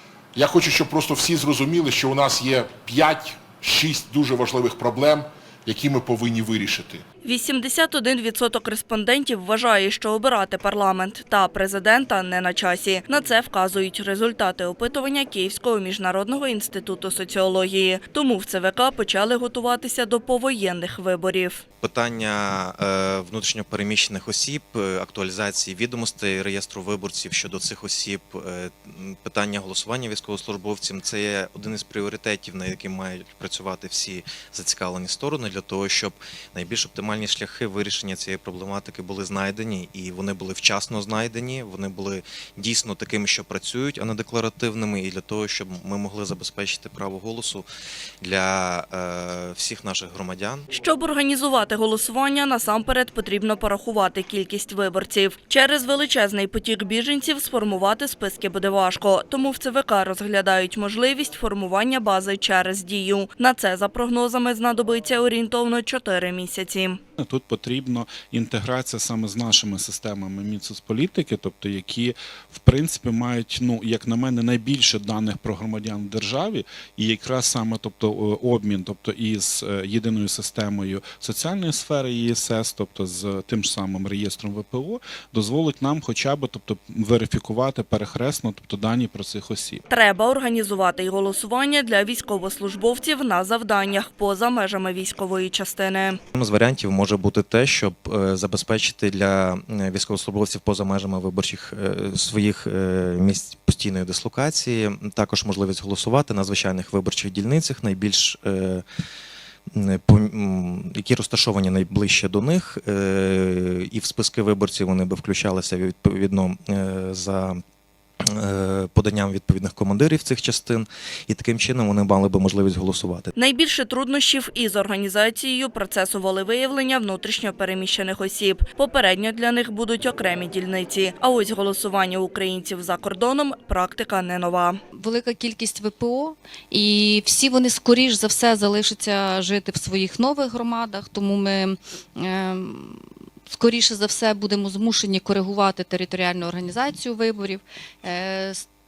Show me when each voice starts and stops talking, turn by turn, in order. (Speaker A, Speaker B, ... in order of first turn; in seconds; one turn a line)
Speaker A: 0.3-7.0
Speaker B: 7.2-21.6
Speaker C: 21.8-47.7
Speaker C: 48.2-50.7
Speaker B: 50.7-67.0
Speaker D: 67.2-89.8
Speaker B: 89.9-96.2
Speaker C: 96.3-108.8
Speaker C: 109.7-117.6
Speaker C: 118.2-123.3
Speaker B: 123.3-134.8
Speaker E: 134.9-148.6